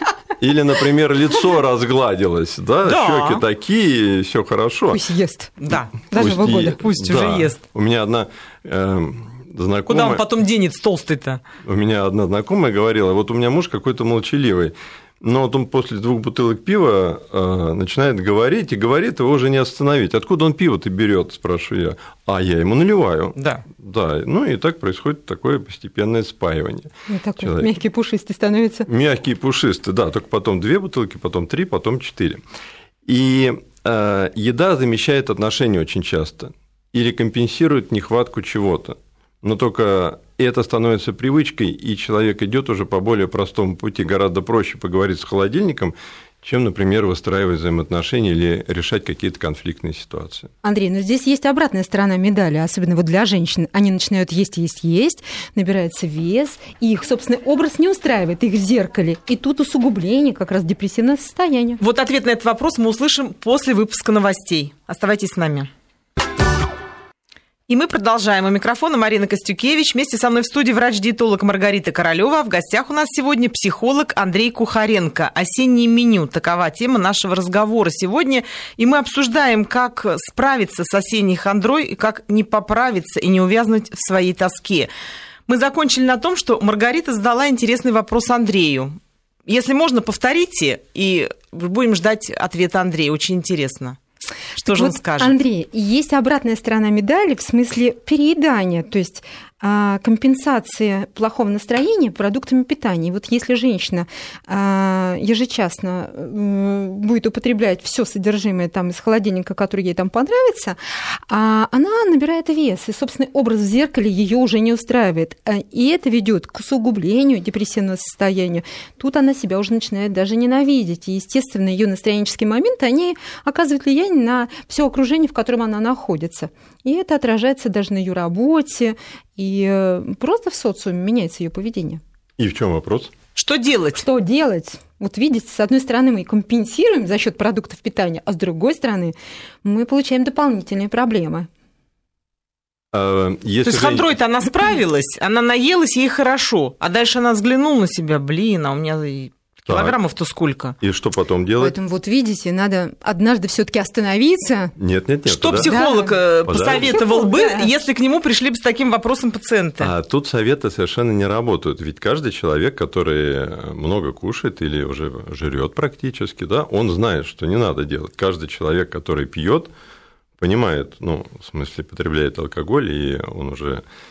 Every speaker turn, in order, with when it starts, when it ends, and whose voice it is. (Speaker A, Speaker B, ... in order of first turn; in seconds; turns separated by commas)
Speaker A: 0.4-5.0, Speaker B: 2.9-3.4, Speaker C: 4.9-5.6, Speaker B: 5.6-6.0, Speaker C: 6.1-6.8, Speaker A: 6.1-10.2, Speaker B: 6.8-7.6, Speaker B: 9.9-11.4, Speaker A: 11.6-27.8, Speaker B: 23.4-23.6, Speaker C: 27.1-28.9, Speaker A: 28.9-32.4, Speaker A: 33.1-50.5, Speaker C: 50.6-61.8, Speaker B: 61.8-65.7, Speaker B: 67.7-84.9, Speaker B: 85.5-94.0, Speaker B: 94.6-95.3, Speaker C: 94.6-110.8, Speaker C: 111.3-132.0, Speaker A: 132.4-133.1, Speaker B: 133.4-134.0, Speaker C: 134.0-141.5, Speaker A: 142.9-144.2, Speaker B: 143.6-150.8, Speaker A: 149.7-150.0, Speaker A: 150.8-151.8, Speaker C: 151.6-154.8, Speaker A: 154.8-155.8, Speaker B: 155.3-159.9, Speaker C: 155.6-157.8, Speaker A: 156.5-157.0, Speaker A: 159.8-169.7, Speaker A: 170.4-173.8